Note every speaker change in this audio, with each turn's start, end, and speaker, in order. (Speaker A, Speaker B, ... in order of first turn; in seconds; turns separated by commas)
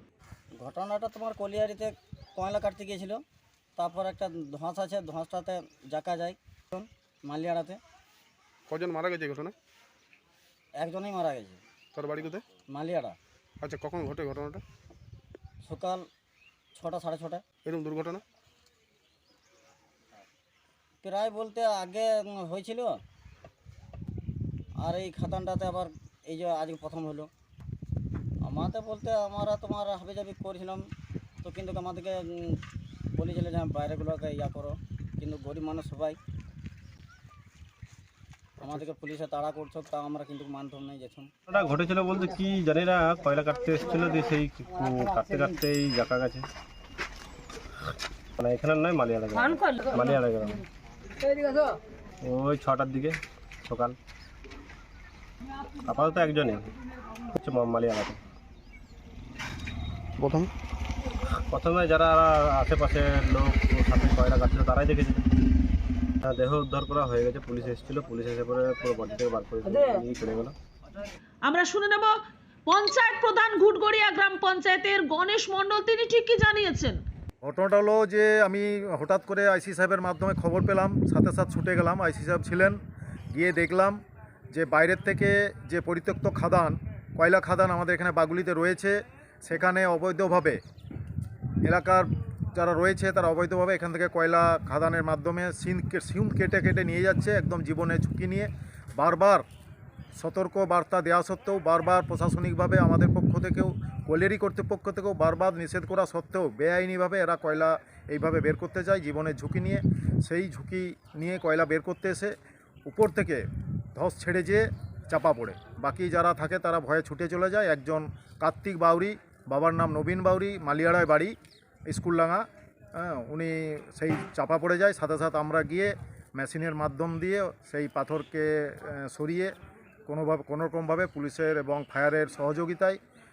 Speaker A: 0.6-3.2, Speaker A: 3.8-7.8, Speaker B: 8.7-9.6, Speaker A: 10.8-11.6, Speaker B: 11.9-12.5, Speaker A: 12.7-13.2, Speaker B: 13.6-14.6, Speaker A: 15.7-16.0, Speaker A: 16.8-17.4, Speaker B: 17.6-18.2, Speaker A: 21.0-23.0, Speaker A: 24.8-27.3, Speaker A: 28.4-30.8, Speaker A: 31.4-32.6, Speaker A: 33.2-36.2, Speaker A: 38.6-41.3, Speaker C: 41.5-46.5, Speaker C: 48.4-50.6, Speaker C: 52.2-54.0, Speaker C: 55.8-56.7, Speaker C: 57.3-58.2, Speaker B: 60.2-60.5, Speaker C: 61.5-65.2, Speaker C: 66.2-70.5, Speaker D: 71.5-72.2, Speaker D: 72.7-77.0, Speaker E: 77.4-82.8, Speaker E: 83.3-84.0, Speaker E: 84.5-90.6, Speaker E: 91.6-99.5, Speaker E: 100.2-121.4, Speaker E: 121.9-129.6, Speaker E: 130.1-133.0